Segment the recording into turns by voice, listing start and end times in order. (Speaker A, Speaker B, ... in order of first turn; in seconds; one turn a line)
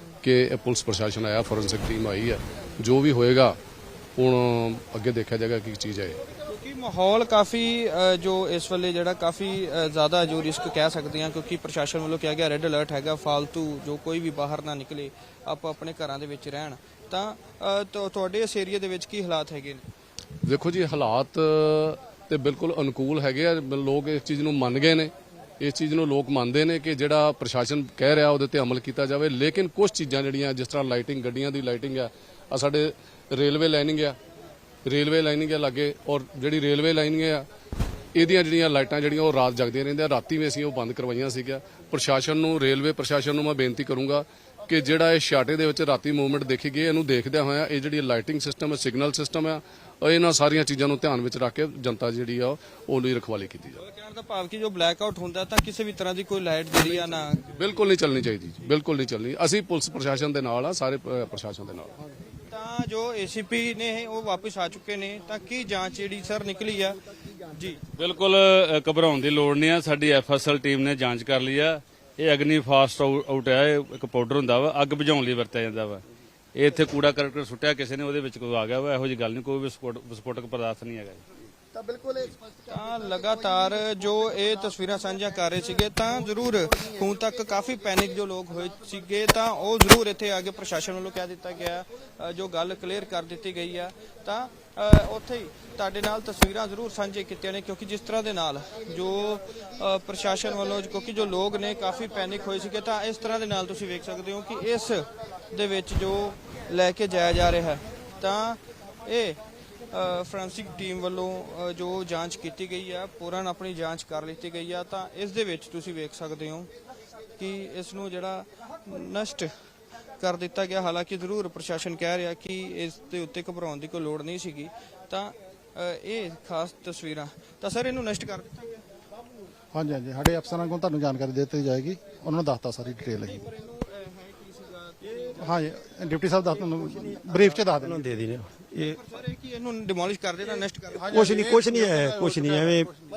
Speaker A: 0.2-3.5
Speaker A: 4.2-6.2
Speaker B: 6.5-19.9
Speaker A: 20.4-34.1
Speaker A: 34.9-37.5
Speaker A: 38.1-53.8
Speaker B: 53.8-57.5
Speaker A: 57.0-62.0
Speaker B: 62.5-67.8
Speaker C: 68.0-76.0
Speaker C: 76.5-81.2
Speaker B: 82.7-109.4
Speaker B: 109.9-116.7
Speaker B: 117.4-119.5
Speaker B: 120.2-128.8
Speaker D: 129.7-133.5
Speaker B: 133.6-134.9
Speaker D: 135.2-138.0
Speaker E: 137.8-139.0
Speaker B: 139.1-141.2
Speaker E: 141.1-142.9
Speaker D: 141.1-142.6